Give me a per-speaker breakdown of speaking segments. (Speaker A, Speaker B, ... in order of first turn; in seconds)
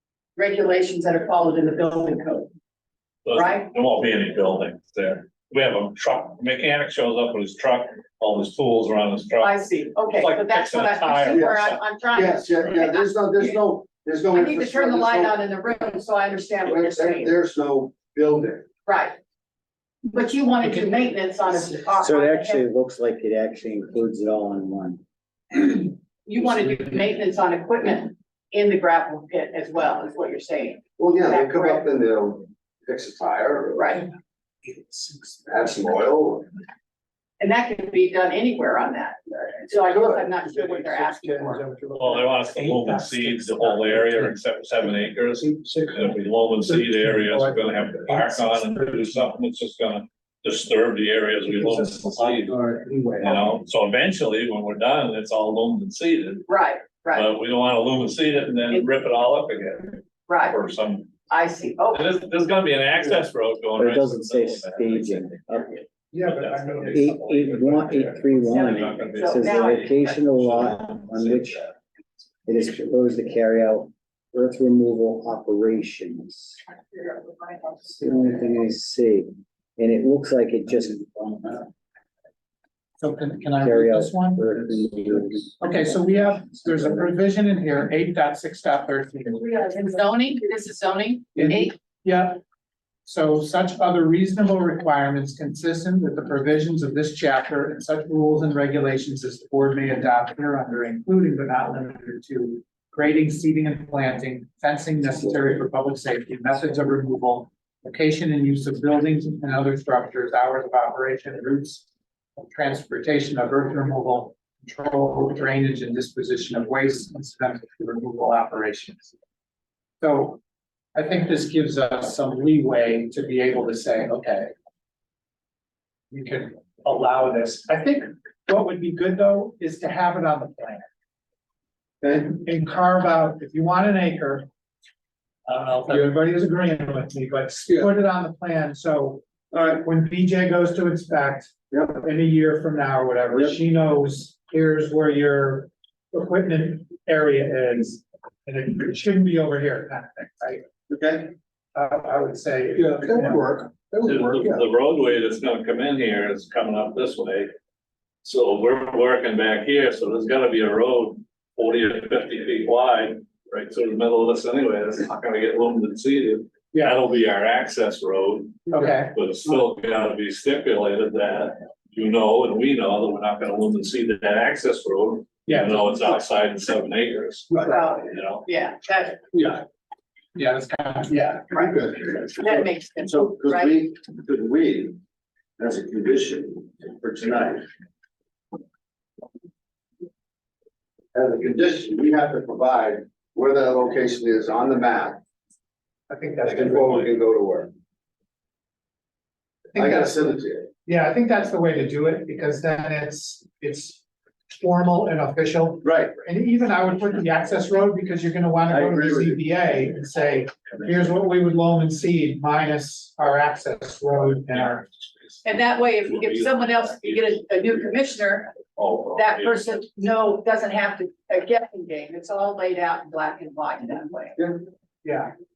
Speaker A: 0.3-2.5, 3.3-3.7, 9.4-13.7, 14.3-17.4, 18.9-19.2, 20.0-22.6, 26.2-31.9, 33.7-34.1, 37.4-41.7, 56.5-57.3, 60.3-60.6, 61.3-62.1, 68.8-69.9, 89.4-91.7, 177.7-179.3, 182.4-183.9, 215.4-224.4
Speaker B: 3.2-11.8, 42.0-52.6, 53.2-56.5, 57.1-61.1, 61.9-71.6, 154.0-157.5, 158.2-178.4, 216.2-217.2, 218.7-219.6
Speaker C: 11.3-15.4, 16.6-18.7, 31.0-34.0, 35.5-36.5, 39.7-41.5, 139.5-139.8, 150.9-151.3, 152.8-153.7, 181.5-185.0, 185.6-187.7, 191.1-195.2, 196.4-197.7, 199.8-200.7, 205.8-206.1, 208.7-209.4
Speaker D: 22.0-25.0, 63.8-65.8, 66.9-71.6, 72.5-76.6, 77.8-81.7, 83.6-85.5
Speaker E: 34.8-35.2, 42.6-44.2, 66.1-67.5, 68.1-68.7, 83.0-89.5, 91.4-92.4, 93.0-111.8, 112.4-119.1, 120.0-120.4, 120.9-124.5, 126.1-130.8, 132.1-134.5, 135.5-139.2, 139.8-150.6, 151.8-153.6, 166.7-167.0, 168.7-169.2, 175.5-176.1, 180.3-181.6, 196.1-197.1, 199.8-200.3, 200.8-204.0, 204.5-214.9, 225.0-225.3